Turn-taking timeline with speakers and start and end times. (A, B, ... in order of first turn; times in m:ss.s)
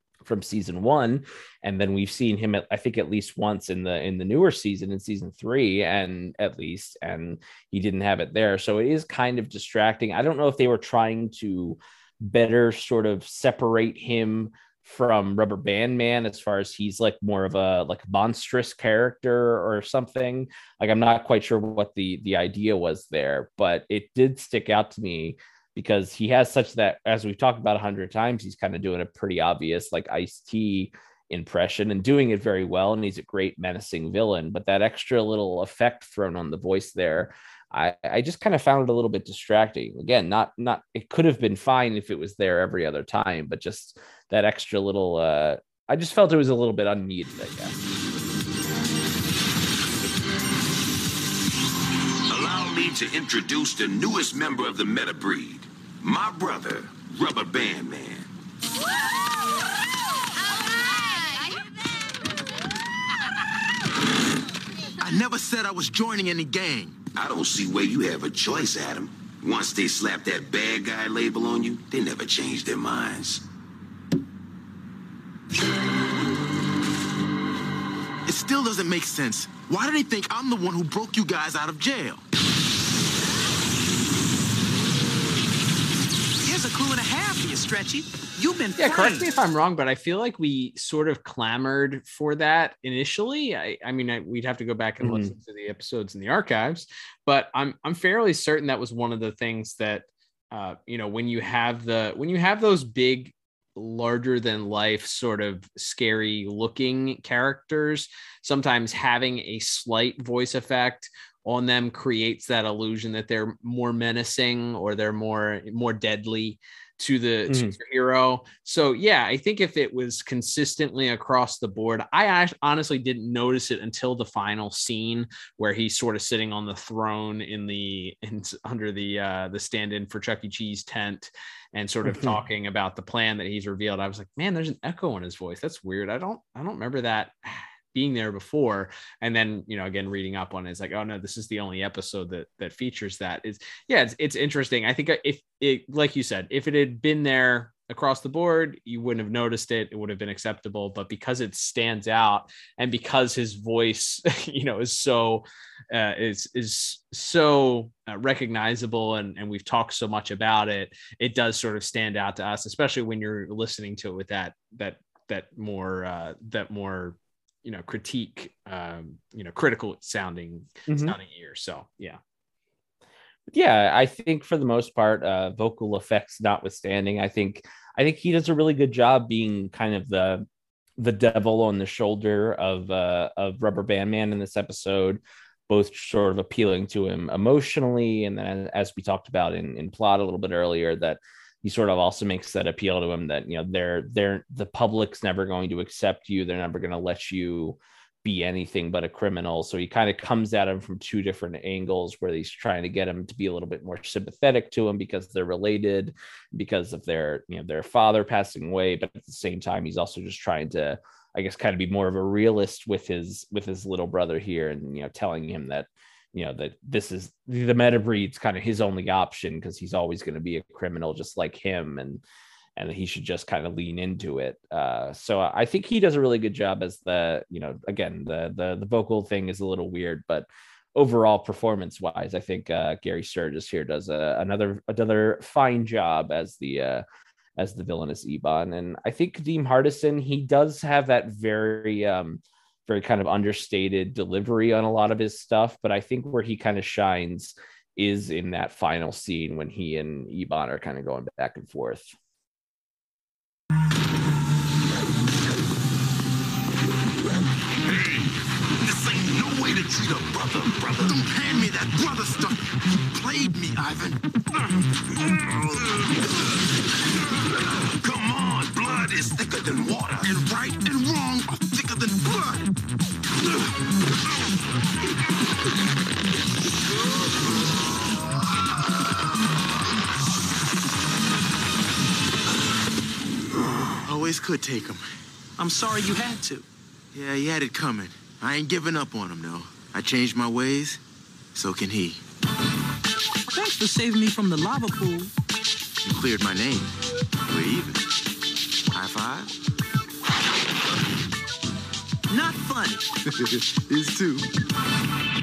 0:00.2-0:47.8 A
0:52.3-0:58.3 B
1:05.0-1:07.0 C
1:07.1-1:13.4 B
1:18.3-1:22.2 C
1:26.4-1:29.3 D
1:28.8-2:52.2 E
1:35.0-1:35.3 A
1:57.5-1:57.7 A
2:12.1-2:12.3 A
2:50.9-2:51.2 A
2:53.5-3:00.4 A
3:01.0-3:42.2 A
3:42.8-3:57.0 A
3:57.6-4:12.1 A
4:17.8-4:21.2 B
4:21.1-4:24.2 C
4:27.9-4:30.3 B
4:30.2-4:32.7 C
4:44.0-4:45.1 C
4:45.6-4:46.6 D
4:47.1-4:51.0 C
4:51.5-4:52.2 C
4:53.5-4:55.3 D
4:56.0-4:56.9 C
4:57.4-4:58.0 C
4:58.9-4:59.5 C
5:02.3-5:03.1 D
5:03.2-5:04.5 C